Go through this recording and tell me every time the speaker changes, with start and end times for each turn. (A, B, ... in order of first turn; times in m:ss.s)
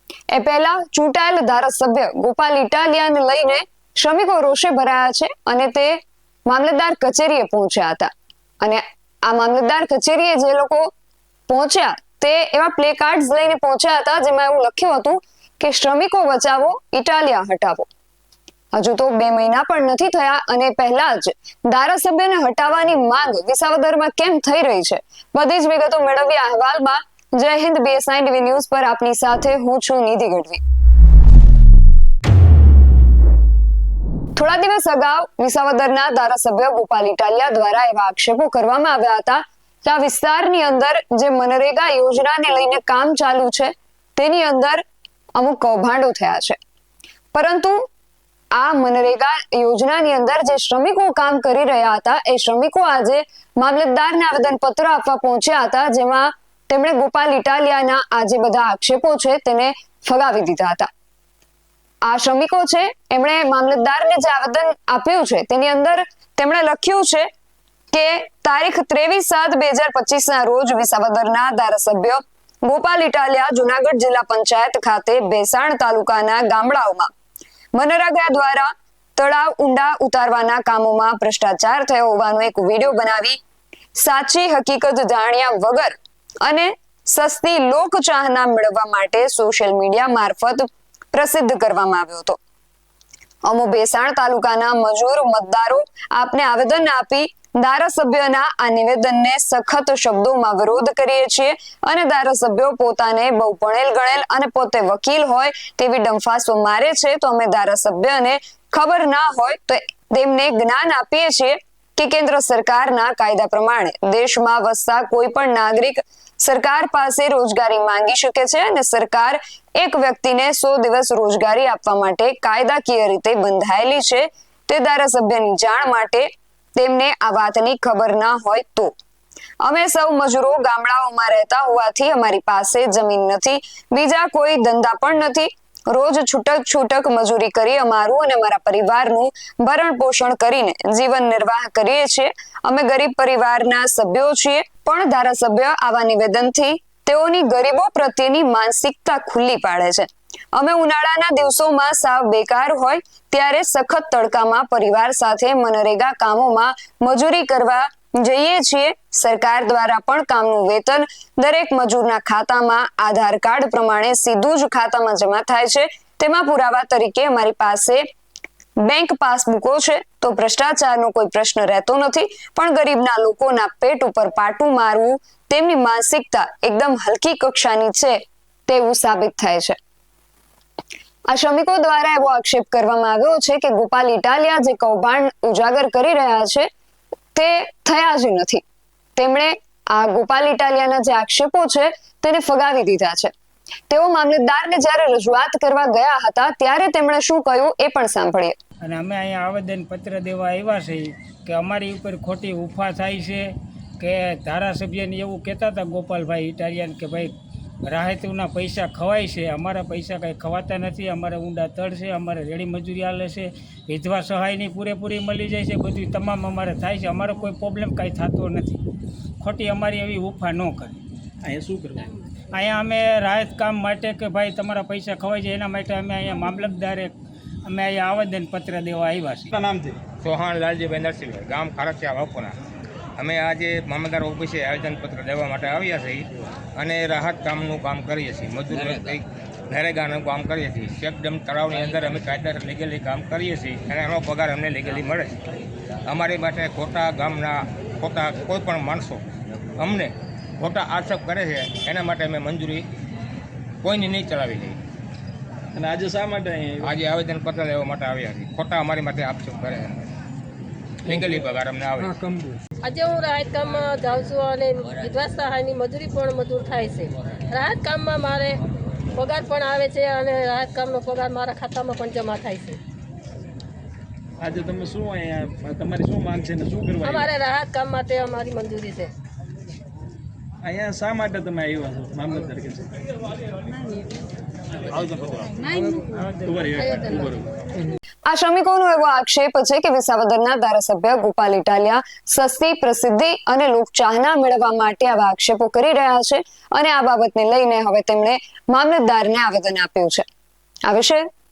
0:00.3-0:08.1 A
0:08.6-0:10.9 A
0:11.5-0:17.9 A
0:18.7-0:30.6 A
0:34.4-0:44.8 A
0:45.3-0:46.6 A
0:47.3-0:47.8 A
0:48.5-1:00.9 A
1:02.0-1:07.2 A
1:07.9-1:17.1 A
1:17.7-1:23.4 A
1:24.0-1:32.4 A
1:33.4-2:08.9 A
2:09.6-2:48.0 A
2:48.8-2:59.8 A
3:01.3-3:06.7 A
3:07.3-3:08.6 A
3:09.2-3:13.3 A
3:13.9-3:18.5 A
3:18.8-3:38.8 B
3:39.4-3:41.0 B
3:41.4-3:42.1 C
3:42.5-3:49.5 B
3:49.5-3:50.0 C
3:50.2-3:52.5 D
3:53.2-4:05.4 D
4:06.0-4:09.2 D
4:09.8-4:12.8 D
4:13.8-4:14.8 D
4:15.7-4:16.9 C
4:16.8-4:20.0 D
4:21.0-4:22.2 D
4:22.8-4:28.6 E
4:29.1-4:32.8 E
4:34.4-4:37.3 C
4:37.0-4:39.1 E
4:40.6-4:43.0 C
4:44.8-4:45.7 C
4:46.2-4:47.4 C
4:46.8-4:47.3 E
4:48.3-5:00.2 A
5:00.9-5:01.2 A